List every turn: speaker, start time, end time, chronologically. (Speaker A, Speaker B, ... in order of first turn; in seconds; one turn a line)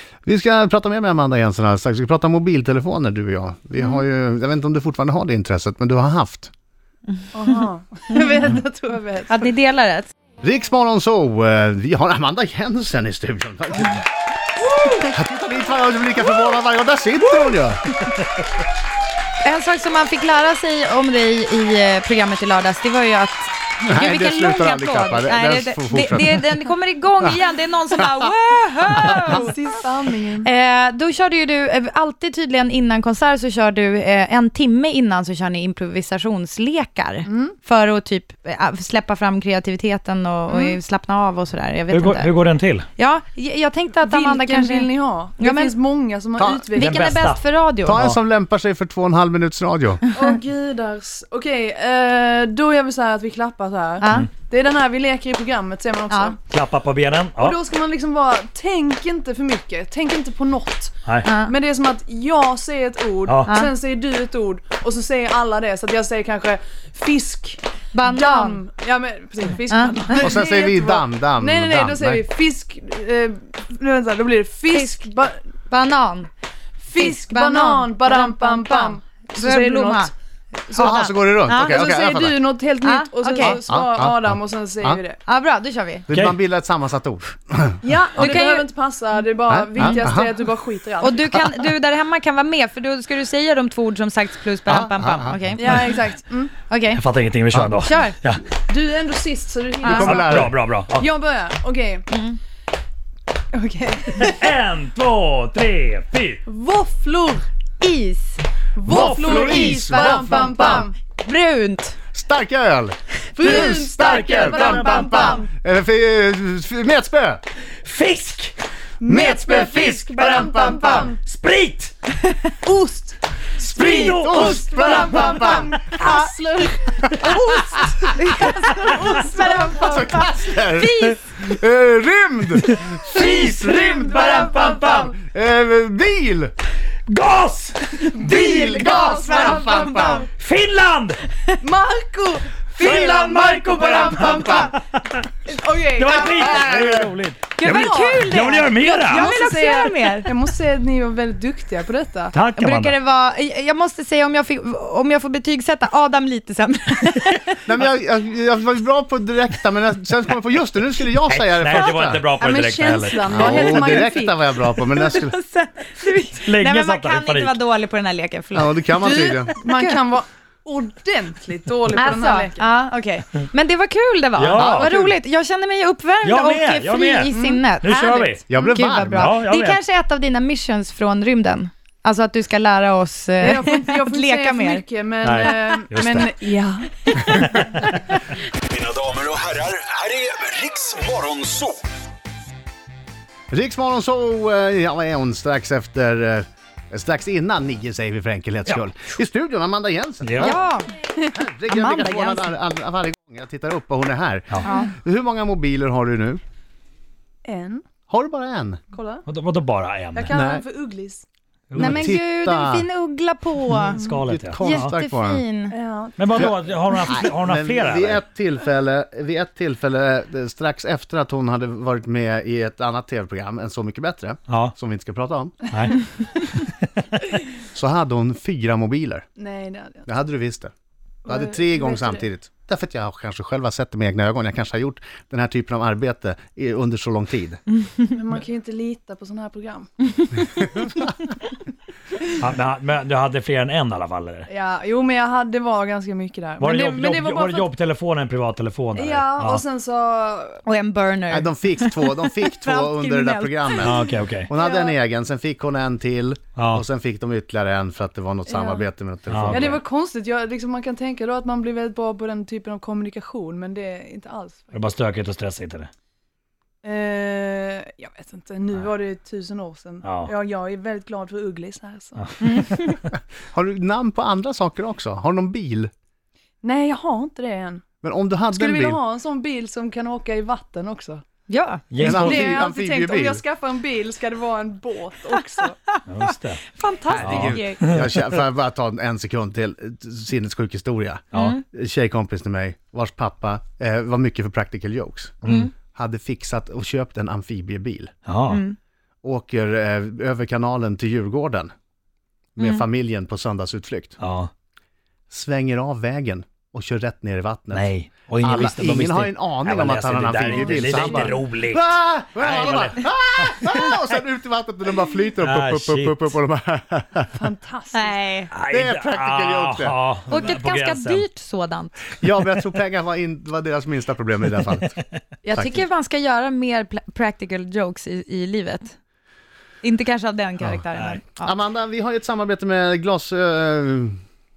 Speaker A: 0.2-6.5
Speaker B: 7.1-7.5
Speaker C: 7.3-9.5
Speaker B: 9.3-10.1
Speaker A: 10.4-14.0
Speaker C: 14.7-15.1
Speaker A: 15.1-18.0
Speaker B: 19.4-29.5
Speaker A: 23.9-26.5
Speaker A: 28.0-28.2
Speaker C: 29.1-30.5
Speaker B: 30.4-42.4
Speaker C: 37.2-37.6
Speaker C: 40.5-40.8
Speaker D: 41.9-42.9
Speaker B: 43.0-45.7
Speaker C: 43.9-47.0
Speaker A: 46.4-46.7
Speaker B: 46.7-48.0
Speaker D: 46.8-48.2
Speaker A: 47.8-50.0
Speaker C: 50.1-56.4
Speaker B: 54.0-54.3
Speaker B: 56.1-56.4
Speaker D: 56.5-57.6
Speaker C: 57.4-75.5
Speaker B: 61.2-61.5
Speaker D: 63.3-63.5
Speaker B: 63.5-63.7
Speaker B: 67.9-68.6
Speaker B: 69.7-70.3
Speaker A: 70.2-72.2
Speaker B: 74.7-75.0
Speaker B: 75.7-76.3
Speaker C: 76.8-80.1
Speaker B: 77.0-80.1
Speaker C: 80.7-80.9
Speaker B: 80.7-81.8
Speaker A: 80.8-82.4
Speaker C: 81.6-85.2
Speaker B: 82.8-83.6
Speaker A: 83.4-85.0
Speaker B: 85.3-86.1
Speaker A: 86.1-88.4
Speaker D: 86.1-86.4
Speaker C: 87.8-91.3
Speaker B: 88.2-88.7
Speaker A: 89.5-90.3
Speaker B: 89.8-90.1
Speaker B: 91.0-96.0
Speaker A: 94.7-95.5
Speaker C: 95.6-96.6
Speaker B: 96.6-97.0
Speaker D: 96.9-98.4
Speaker A: 97.5-97.8
Speaker B: 97.8-98.2
Speaker C: 98.7-102.1
Speaker B: 99.8-100.2
Speaker A: 99.9-100.5
Speaker D: 100.0-101.1
Speaker B: 102.1-102.4
Speaker C: 103.5-104.4
Speaker D: 104.1-106.4
Speaker C: 106.5-107.5
Speaker B: 107.8-108.4
Speaker C: 108.8-111.0
Speaker D: 108.9-109.9
Speaker A: 108.9-110.8
Speaker B: 109.9-112.0
Speaker A: 112.1-117.4
Speaker C: 113.3-115.5
Speaker D: 113.5-115.4
Speaker D: 117.8-118.6
Speaker C: 119.0-121.2
Speaker A: 119.1-121.1
Speaker D: 119.2-121.9
Speaker B: 122.3-122.5
Speaker C: 122.6-130.8
Speaker A: 123.6-125.8
Speaker D: 123.6-125.6
Speaker A: 127.2-128.4
Speaker B: 128.3-128.7
Speaker B: 129.4-130.3
Speaker A: 129.8-136.5
Speaker D: 132.7-135.1
Speaker C: 133.1-135.2
Speaker D: 137.1-138.3
Speaker C: 138.1-140.3
Speaker A: 138.2-140.2
Speaker B: 138.4-140.3
Speaker D: 140.3-141.2
Speaker C: 141.6-144.8
Speaker D: 142.8-145.3
Speaker A: 144.1-144.7
Speaker C: 145.5-146.7
Speaker D: 146.0-149.3
Speaker A: 146.4-147.1
Speaker B: 147.6-150.3
Speaker C: 147.6-152.4
Speaker D: 152.3-152.9
Speaker B: 152.5-157.6
Speaker A: 157.6-162.3
Speaker D: 161.3-163.8
Speaker C: 162.4-164.5
Speaker A: 163.3-165.3
Speaker B: 164.8-170.0
Speaker D: 166.4-167.6
Speaker A: 168.5-169.6
Speaker C: 169.0-172.7
Speaker B: 171.9-184.8
Speaker D: 174.4-175.0
Speaker A: 174.6-175.1
Speaker D: 176.2-178.4
Speaker C: 177.3-177.7
Speaker A: 178.5-179.3
Speaker D: 179.1-179.8
Speaker C: 183.4-187.0
Speaker D: 185.2-186.3
Speaker B: 187.1-188.2
Speaker D: 187.2-187.9
Speaker E: 188.7-191.8
Speaker A: 193.5-200.6
Speaker D: 200.2-200.6
Speaker B: 200.4-201.0
Speaker A: 201.2-206.4
Speaker B: 201.7-202.6
Speaker B: 204.6-204.9
Speaker C: 207.4-207.9
Speaker A: 208.1-208.8
Speaker C: 208.9-209.2
Speaker D: 209.3-210.3
Speaker C: 210.2-211.2
Speaker A: 210.3-210.6
Speaker D: 211.7-212.1
Speaker A: 211.8-212.9
Speaker B: 211.8-214.0
Speaker D: 213.7-214.9
Speaker C: 213.9-214.2
Speaker A: 214.1-215.4
Speaker B: 214.6-215.8
Speaker C: 215.7-216.6
Speaker D: 216.2-218.2
Speaker A: 217.1-225.6
Speaker D: 224.5-224.7
Speaker D: 225.7-226.7
Speaker A: 227.7-229.3
Speaker C: 229.4-230.1
Speaker A: 230.1-230.7
Speaker C: 231.3-232.3
Speaker A: 231.3-237.6
Speaker C: 238.1-240.7
Speaker D: 242.4-244.5
Speaker C: 244.5-247.7
Speaker D: 246.6-249.6
Speaker C: 248.9-250.6
Speaker B: 250.7-254.1
Speaker A: 251.3-259.8
Speaker D: 253.8-254.5
Speaker C: 254.5-255.0
Speaker D: 256.6-256.8
Speaker C: 258.5-258.9
Speaker D: 259.3-259.8
Speaker C: 259.5-264.9
Speaker D: 264.7-265.9
Speaker C: 266.8-272.3
Speaker D: 270.0-270.3
Speaker D: 272.2-272.9
Speaker B: 272.4-273.0
Speaker A: 273.1-275.9
Speaker C: 276.6-277.8
Speaker A: 278.0-279.0
Speaker C: 278.5-281.2
Speaker B: 281.5-281.9
Speaker D: 281.9-282.5
Speaker A: 282.0-283.4
Speaker C: 282.0-285.8
Speaker D: 286.1-288.1
Speaker B: 286.7-287.8
Speaker A: 287.1-298.1
Speaker B: 291.3-291.6
Speaker D: 295.4-295.7
Speaker D: 298.3-298.6
Speaker B: 298.5-298.8
Speaker A: 299.2-301.7
Speaker A: 302.6-304.2
Speaker B: 302.6-302.9
Speaker D: 304.2-304.5
Speaker A: 305.3-317.3
Speaker D: 307.7-313.7
Speaker C: 310.5-311.4
Speaker D: 315.4-316.4
Speaker C: 317.3-318.3
Speaker B: 317.9-318.5
Speaker D: 318.5-321.3
Speaker A: 318.7-320.0
Speaker B: 320.3-322.1
Speaker A: 322.2-325.0
Speaker B: 325.4-329.0
Speaker A: 325.5-325.8
Speaker B: 329.8-331.6
Speaker D: 330.9-331.2
Speaker A: 331.4-334.2